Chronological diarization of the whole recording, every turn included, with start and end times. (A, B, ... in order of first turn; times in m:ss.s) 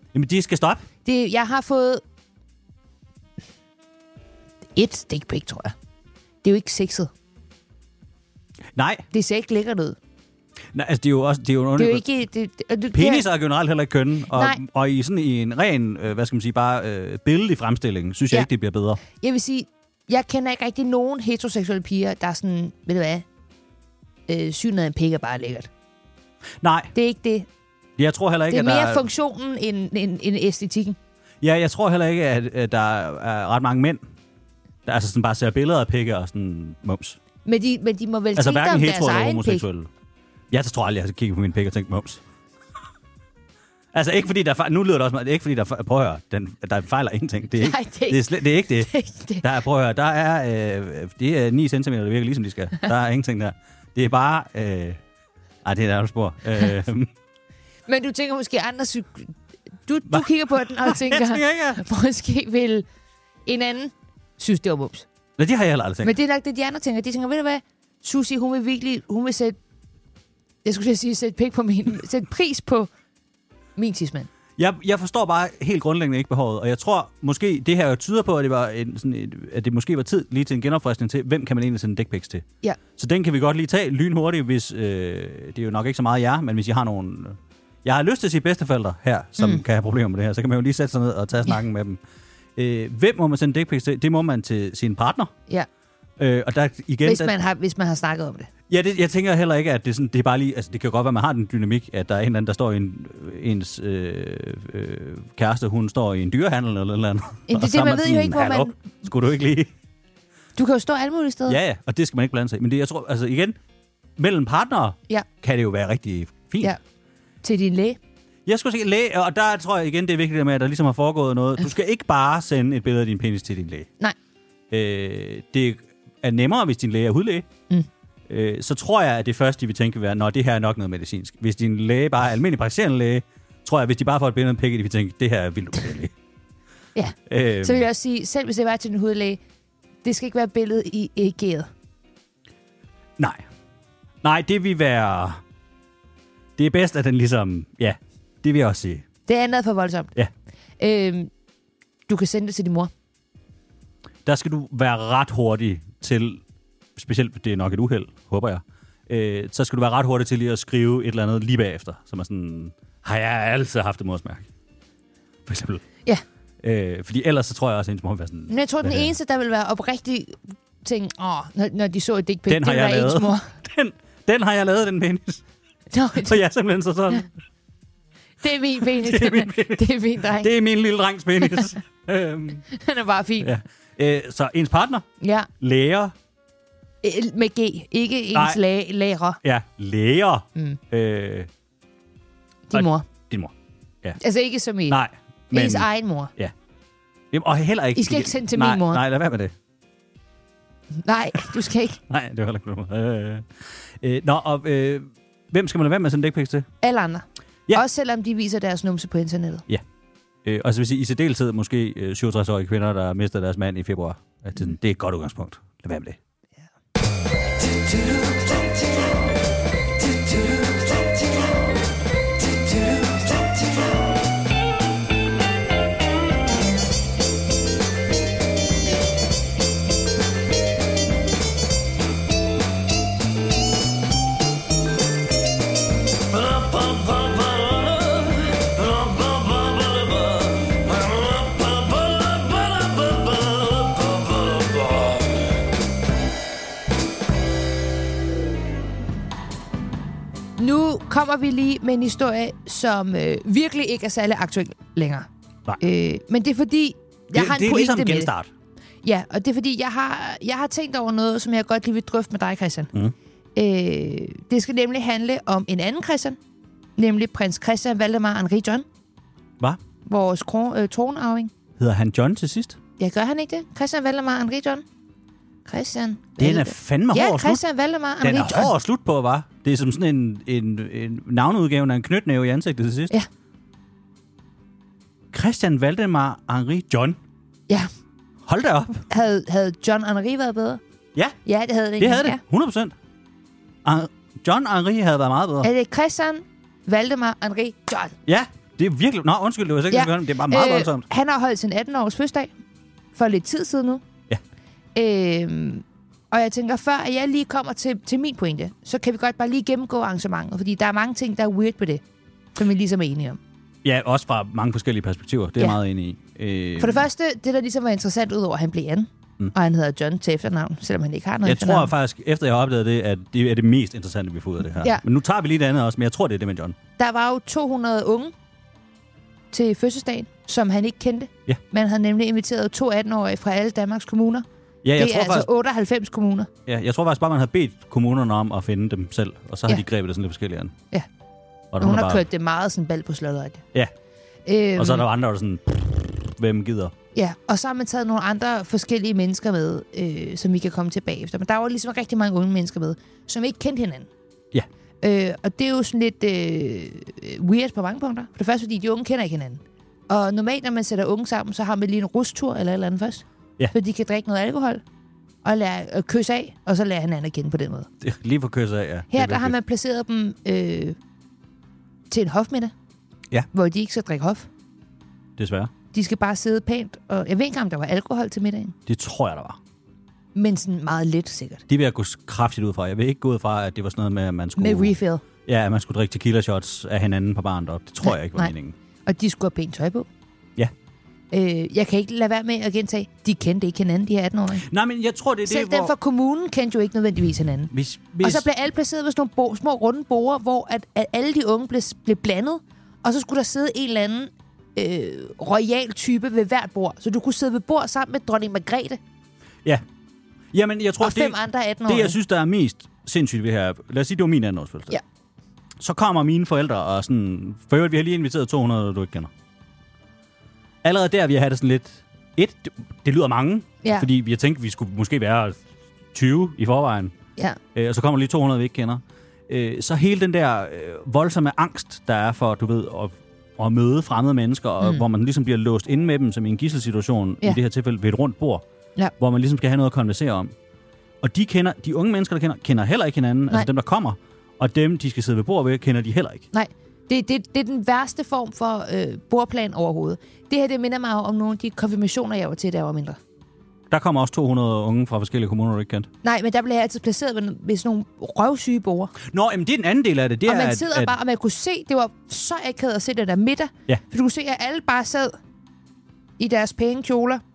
0:00.1-0:00.8 A
0:01.0-0:02.0 B
0:04.8-0:05.7 B
0:06.4-0:07.1 B
0:08.7-0:09.1 A
0:09.1-0:10.0 B
0:10.7-0:12.0 A
0:11.8-0:13.3 B
0:12.9-0:19.0 A
0:14.3-0:14.6 B
0:19.1-0:23.2 B
0:24.3-0:25.7 B
0:26.6-0:26.9 A
0:26.9-0:27.5 B
0:28.0-0:29.0 A
0:28.5-0:31.0 B
0:31.4-0:34.0 A
0:34.8-0:37.2 A
0:37.4-0:39.6 B
0:38.3-0:39.9 A
0:40.5-0:42.2 A
0:43.9-0:55.0 A
0:47.6-0:49.4 B
0:55.6-0:57.1 A
0:57.9-1:02.9 B
1:00.1-1:01.8 A
1:03.4-1:05.1 B
1:05.4-1:06.1 A
1:06.0-1:09.6 B
1:10.6-1:12.9 B
1:13.8-1:14.3 B
1:14.6-1:32.0 A
1:32.6-1:35.3 A
1:36.2-1:37.3 A
1:37.0-1:38.5 B
1:38.7-1:49.7 A
1:47.5-1:48.7 B
1:50.6-1:51.6 B
1:51.5-1:53.6 A
1:54.2-1:56.8 A
1:57.4-1:58.0 B
1:58.4-2:03.9 A
2:04.7-2:07.5 A
2:08.3-2:16.1 A
2:16.9-2:19.4 B
2:17.3-2:17.8 A
2:20.0-2:21.7 B
2:23.2-2:23.4 A
2:24.2-2:25.4 A
2:26.6-2:29.0 A
2:29.3-2:30.1 B
2:30.8-2:31.3 B
2:32.1-2:32.9 B
2:34.2-2:36.4 A
2:37.0-2:44.4 A
2:45.4-2:45.8 A
2:46.6-2:49.1 A
2:48.5-2:53.5 B
2:52.5-2:55.4 A
2:55.9-2:56.4 B
2:56.2-2:57.3 A
2:58.4-3:00.5 B
2:58.9-3:02.6 A
3:02.7-3:03.5 B
3:03.4-3:05.1 A
3:05.2-3:05.5 B
3:05.6-3:06.1 A
3:07.0-3:09.4 B
3:08.3-3:08.6 A
3:09.4-3:11.5 A
3:12.7-3:13.0 B
3:12.7-3:14.2 A
3:14.2-3:15.0 B
3:14.9-3:16.5 A
3:15.5-3:16.3 B
3:17.3-3:19.5 A
3:18.0-3:19.0 B
3:21.0-3:22.0 B
3:22.1-3:26.7 A
3:26.8-3:29.6 B
3:30.4-3:36.2 A
3:56.5-4:00.5 A
4:01.4-4:03.8 A
4:10.6-4:15.3 B
4:15.8-4:18.3 B
4:17.3-4:18.5 A
4:19.0-4:22.9 B
4:23.6-4:26.4 B
4:27.0-4:28.8 B
4:30.0-4:31.5 B
4:31.8-4:32.8 A
4:33.0-4:34.8 B
4:35.6-4:38.7 B
4:36.4-4:37.6 A
4:38.2-4:43.1 A
4:45.3-4:47.2 A
4:48.4-4:49.0 A
4:49.1-4:50.8 B
4:51.4-4:52.4 B
4:52.0-4:52.9 A
4:53.8-4:55.7 A
4:55.6-4:58.1 B
4:58.3-5:01.0 A
4:59.9-5:02.5 B
5:03.1-5:04.0 B
5:04.9-5:12.0 B
5:12.5-5:13.4 B
5:13.8-5:17.1 A
5:16.8-5:21.9 B
5:21.4-5:26.8 A
5:27.0-5:28.3 B
5:29.5-5:34.4 B
5:34.8-5:35.5 A
5:35.0-5:36.5 B
5:36.6-5:40.7 A
5:41.7-5:42.2 A
5:41.8-5:43.6 B
5:44.4-5:45.0 B
5:44.8-5:46.9 A
5:47.1-5:54.1 B
5:55.0-6:04.8 B
6:05.4-6:07.9 B
6:08.0-6:09.5 A
6:09.1-6:11.0 B
6:12.1-6:12.7 B
6:13.5-6:14.5 B
6:15.4-6:15.7 A
6:15.9-6:18.7 B
6:18.9-6:19.6 A
6:20.3-6:21.6 B
6:21.7-6:28.8 A
6:24.6-6:25.2 B
6:28.0-6:28.5 B
6:29.0-6:30.1 B
6:31.3-6:34.6 B
6:34.6-6:35.9 A
6:35.5-6:37.7 B
6:37.7-6:38.5 A
6:38.2-6:49.0 B
6:50.5-6:55.0 A
6:51.0-6:52.2 B
6:55.8-6:59.3 A
7:00.8-7:05.6 A
7:03.8-7:04.1 B
7:06.1-7:07.1 A
7:07.7-7:18.6 A
7:19.2-7:20.5 A
7:21.2-7:26.5 A
7:26.5-7:33.2 B
7:33.9-7:36.1 A
7:36.2-7:39.1 B
7:39.2-7:41.1 A
7:40.4-7:45.4 B
7:46.4-7:47.4 B